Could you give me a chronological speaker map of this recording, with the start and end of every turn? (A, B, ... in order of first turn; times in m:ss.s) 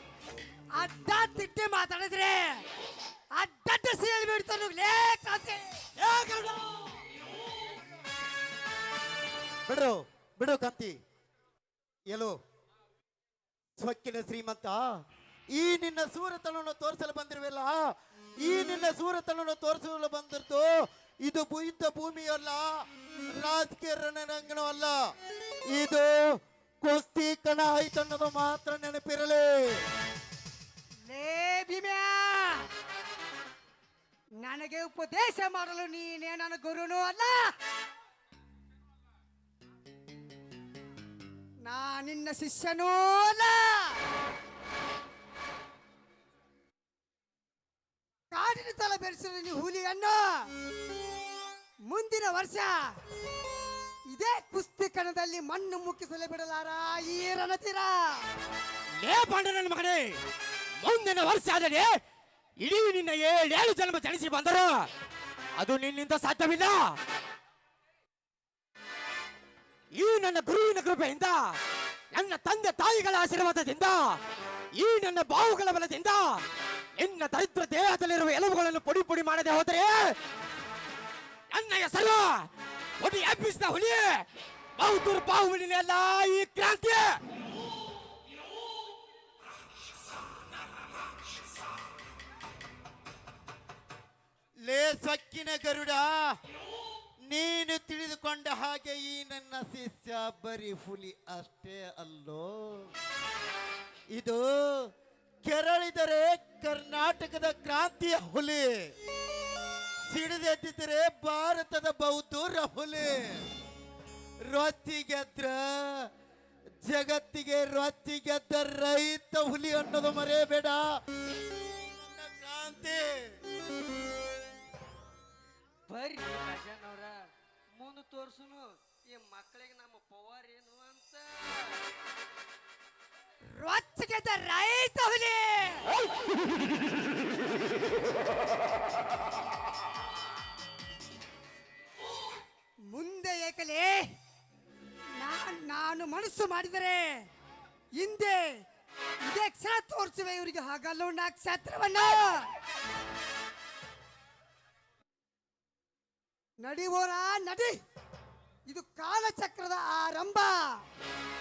0:00.7-0:02.6 A
0:03.3-0:05.8 A
0:06.0-0:06.8 B
0:09.6-0:11.0 C
0:12.1-0:12.4 C
0:13.8-0:14.8 C
0:15.5-0:17.8 C
0:18.4-0:20.7 C
0:21.2-0:22.7 C
0:23.4-0:25.0 C
0:25.7-0:26.2 C
0:26.8-0:29.8 C
0:31.1-0:32.7 A
0:34.4-0:37.5 A
0:41.6-0:44.0 A
0:48.3-0:50.5 A
0:51.9-0:52.7 A
0:54.1-0:57.9 A
0:59.0-1:00.1 B
1:00.8-1:01.9 B
1:02.6-1:04.8 B
1:05.6-1:06.8 B
1:10.0-1:11.5 B
1:12.1-1:14.2 B
1:14.8-1:16.4 B
1:17.0-1:20.1 B
1:21.5-1:22.5 B
1:23.0-1:24.2 B
1:24.8-1:27.2 B
1:34.6-1:36.0 C
1:37.3-1:42.9 C
1:44.2-1:44.4 C
1:45.4-1:48.6 C
1:50.1-1:53.1 C
1:54.5-1:56.0 C
1:56.8-2:00.8 C
2:01.8-2:03.4 C
2:05.9-2:07.2 D
2:07.8-2:11.8 D
2:13.6-2:15.9 A
2:22.9-2:24.1 A
2:25.2-2:27.3 A
2:28.0-2:28.6 A
2:29.2-2:32.5 A
2:36.6-2:37.8 A
2:38.7-2:40.6 A